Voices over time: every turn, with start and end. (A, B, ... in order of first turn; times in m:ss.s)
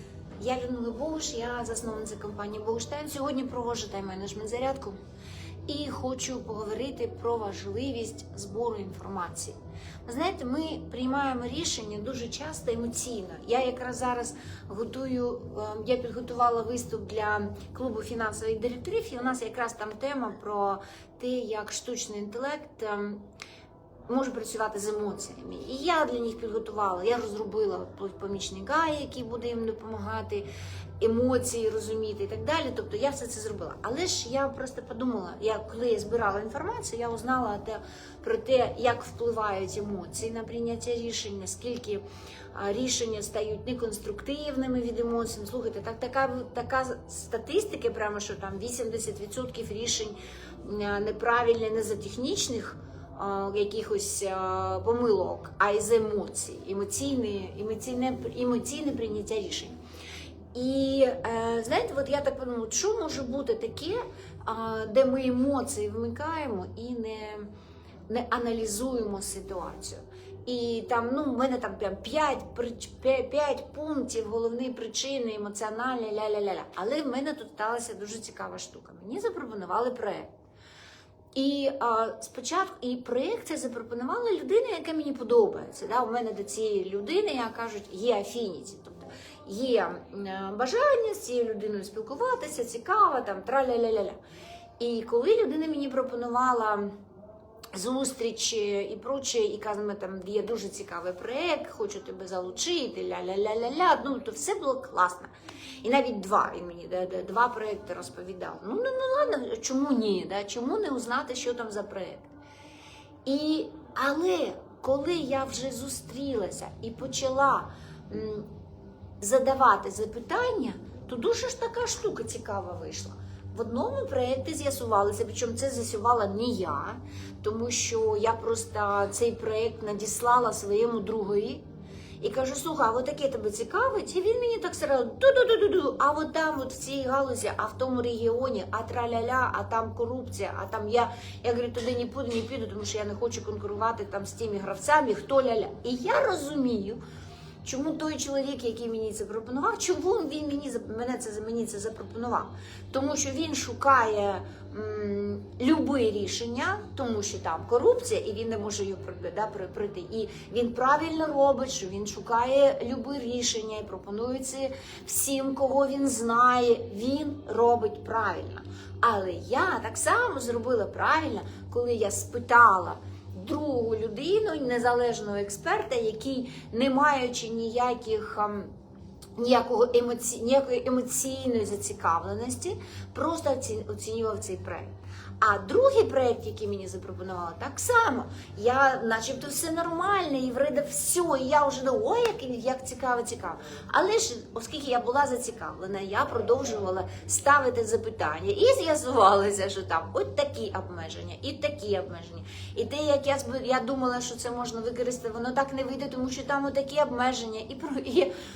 0:00.4-0:04.9 A
0:05.6-0:23.2 A
0:24.1-0:30.4 A
0:31.0-0:42.0 A
0:42.5-0:59.7 A
1:00.5-1:07.4 A
1:08.1-1:20.3 A
1:21.3-1:34.2 A
1:34.8-1:36.9 A
1:37.7-1:45.3 A
1:45.8-1:52.3 A
1:53.2-1:58.5 A
1:59.2-2:11.6 A
2:12.2-2:27.0 A
2:27.6-2:58.7 A
2:59.4-3:28.3 A